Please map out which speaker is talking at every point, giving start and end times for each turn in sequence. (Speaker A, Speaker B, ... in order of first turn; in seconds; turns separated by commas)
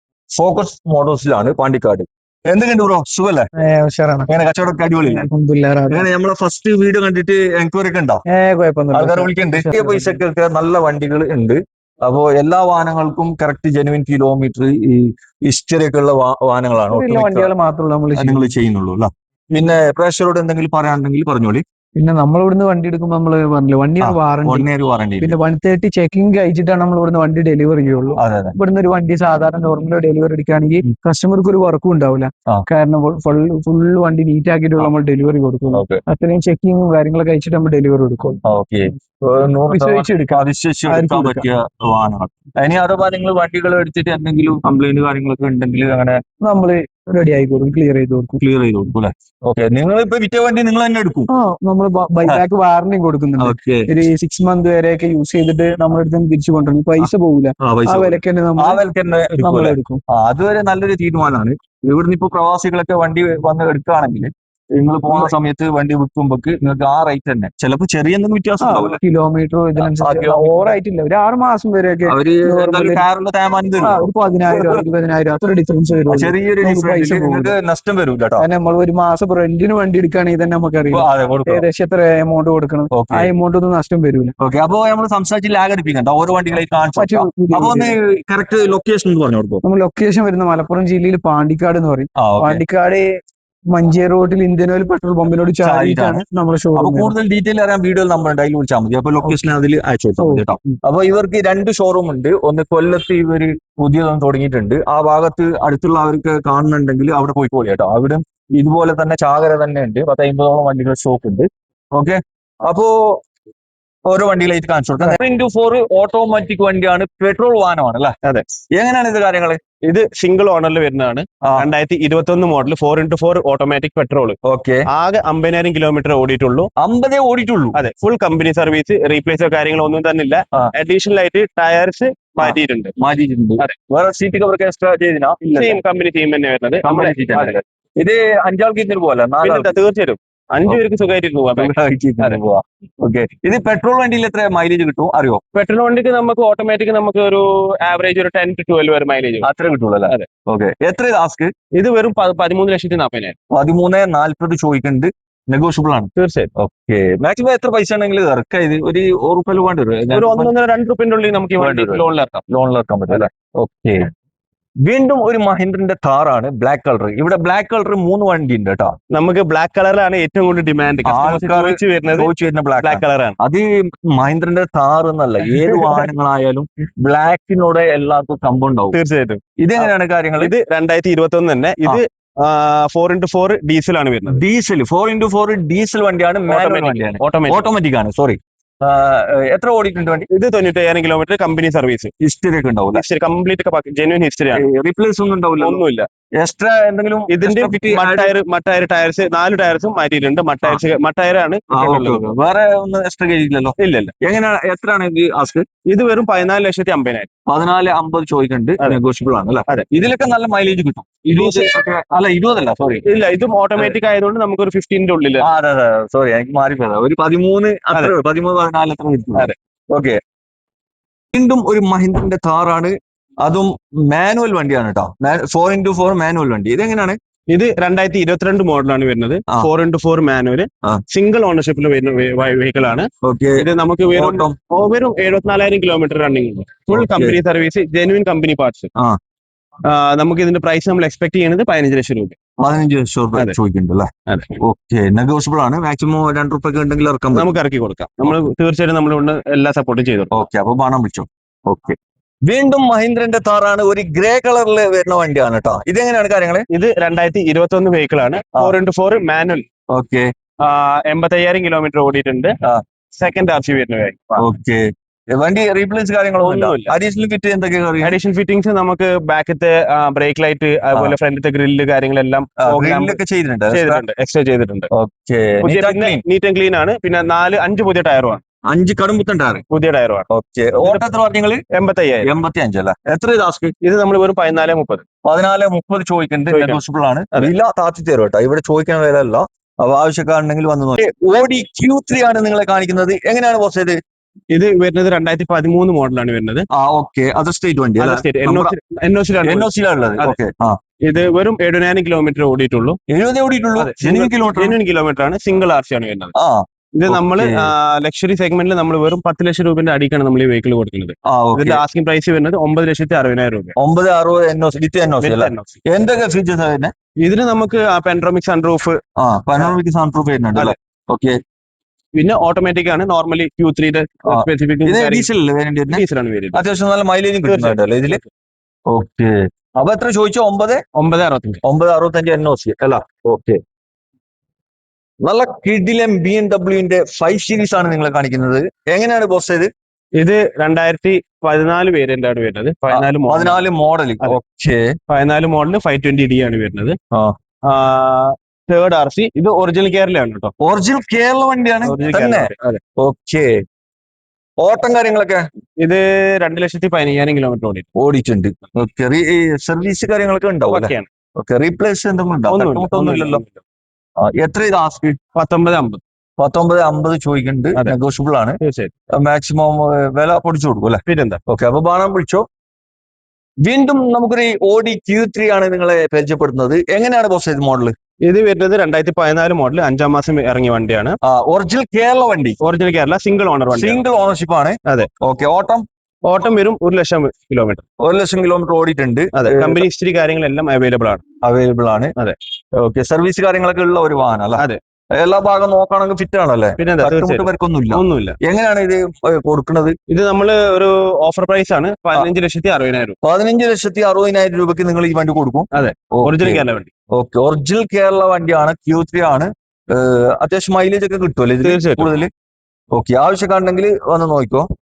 Speaker A: 0.4-3.5, Speaker B: 3.6-4.3, Speaker A: 4.3-5.3, Speaker B: 5.0-6.0, Speaker A: 5.9-8.2, Speaker B: 8.3-10.2, Speaker A: 8.9-17.5, Speaker B: 16.9-18.5, Speaker A: 18.1-21.6, Speaker B: 21.9-24.7, Speaker A: 24.0-25.4, Speaker B: 25.2-38.4, Speaker A: 28.2-28.5, Speaker A: 35.7-36.0, Speaker A: 38.4-46.2, Speaker B: 39.7-41.4, Speaker B: 46.4-48.4, Speaker A: 48.4-51.3, Speaker B: 51.3-58.8, Speaker A: 53.4-53.9, Speaker A: 57.6-69.0, Speaker B: 59.4-60.0, Speaker B: 68.6-73.0, Speaker A: 69.8-70.7, Speaker A: 72.1-74.8, Speaker B: 73.8-77.5, Speaker A: 76.1-78.5, Speaker B: 78.4-84.3, Speaker A: 80.9-81.6, Speaker A: 82.9-83.3, Speaker A: 84.4-89.6, Speaker B: 87.0-87.9, Speaker B: 89.6-93.0, Speaker A: 92.2-92.6, Speaker B: 93.7-97.1, Speaker A: 95.6-96.2, Speaker A: 96.8-113.2, Speaker B: 100.2-100.7, Speaker A: 114.1-118.1, Speaker A: 118.7-119.6, Speaker C: 119.8-124.4, Speaker A: 124.4-124.9, Speaker C: 124.9-126.7, Speaker A: 126.8-127.8, Speaker C: 127.7-132.9, Speaker A: 132.4-135.8, Speaker C: 135.4-137.5, Speaker A: 136.8-139.7, Speaker C: 139.4-142.4, Speaker A: 141.5-145.4, Speaker C: 145.5-149.5, Speaker A: 149.4-151.5, Speaker C: 151.7-153.3, Speaker A: 153.5-160.5, Speaker C: 156.2-156.5, Speaker C: 160.1-162.4, Speaker A: 161.6-164.0, Speaker A: 164.8-168.9, Speaker C: 169.1-172.3, Speaker A: 171.1-179.0, Speaker C: 172.8-173.3, Speaker C: 175.6-176.1, Speaker C: 178.9-184.4, Speaker A: 179.6-180.5, Speaker A: 184.3-190.3, Speaker C: 186.5-187.7, Speaker C: 190.3-192.1, Speaker A: 192.2-193.0, Speaker C: 192.9-194.6, Speaker A: 194.5-195.8, Speaker C: 195.6-196.1, Speaker A: 196.4-198.3, Speaker C: 197.3-202.2, Speaker A: 201.7-205.6, Speaker C: 203.8-204.1, Speaker C: 205.8-207.3, Speaker A: 207.5-213.0, Speaker C: 211.2-211.7, Speaker C: 213.0-215.5, Speaker A: 215.4-220.2, Speaker A: 221.3-227.2, Speaker C: 227.5-238.9, Speaker A: 233.2-234.6, Speaker A: 236.9-237.4, Speaker C: 239.8-242.4, Speaker A: 242.6-247.5, Speaker C: 247.3-250.3, Speaker A: 250.3-251.9, Speaker A: 252.5-256.7, Speaker C: 256.7-259.6, Speaker A: 259.9-260.3, Speaker C: 260.6-262.6, Speaker C: 263.2-264.4, Speaker A: 264.4-264.8, Speaker A: 265.3-268.2, Speaker C: 266.4-266.9, Speaker C: 268.0-273.2, Speaker A: 272.6-274.0, Speaker C: 273.7-274.9, Speaker A: 274.9-276.2, Speaker C: 275.6-278.4, Speaker A: 278.7-279.6, Speaker C: 279.7-280.3, Speaker A: 280.3-281.6, Speaker C: 281.7-282.3, Speaker A: 282.2-283.7, Speaker C: 283.8-285.0, Speaker A: 285.2-293.9, Speaker C: 286.5-286.8, Speaker C: 294.5-296.7, Speaker A: 296.7-298.7, Speaker C: 298.0-300.4, Speaker A: 299.4-300.8, Speaker C: 301.0-303.0, Speaker A: 303.1-304.8, Speaker C: 303.8-306.3, Speaker A: 306.4-307.7, Speaker C: 306.9-313.7, Speaker A: 311.2-311.8, Speaker A: 313.8-316.9, Speaker C: 315.2-315.8, Speaker C: 317.2-319.0, Speaker A: 319.2-321.4, Speaker C: 322.1-325.3, Speaker A: 324.3-328.2, Speaker C: 325.9-326.6, Speaker C: 327.4-328.3, Speaker A: 328.9-330.8, Speaker C: 330.9-331.6, Speaker A: 331.6-333.6, Speaker A: 335.2-339.7, Speaker C: 340.1-343.6, Speaker A: 342.9-344.8, Speaker C: 345.1-347.0, Speaker C: 347.7-350.5, Speaker A: 350.6-353.5, Speaker C: 351.8-352.8, Speaker A: 354.6-355.4, Speaker C: 355.8-357.9, Speaker A: 357.9-363.4, Speaker C: 360.7-361.1, Speaker C: 362.5-363.6, Speaker A: 364.2-365.2, Speaker C: 365.3-366.0, Speaker A: 366.4-368.6, Speaker C: 368.6-368.9, Speaker A: 369.1-372.4, Speaker C: 371.1-371.4, Speaker A: 373.6-377.9, Speaker C: 378.2-381.2, Speaker A: 381.2-382.6, Speaker C: 382.6-384.0, Speaker A: 383.7-385.8, Speaker C: 386.2-387.8, Speaker A: 388.0-389.8, Speaker C: 389.3-391.2, Speaker A: 391.4-392.1, Speaker A: 392.8-394.6, Speaker A: 395.2-399.9, Speaker C: 396.8-398.4, Speaker C: 400.1-403.1, Speaker A: 403.2-406.6, Speaker C: 405.7-406.9, Speaker A: 407.1-412.3, Speaker C: 411.6-412.1, Speaker A: 412.9-414.7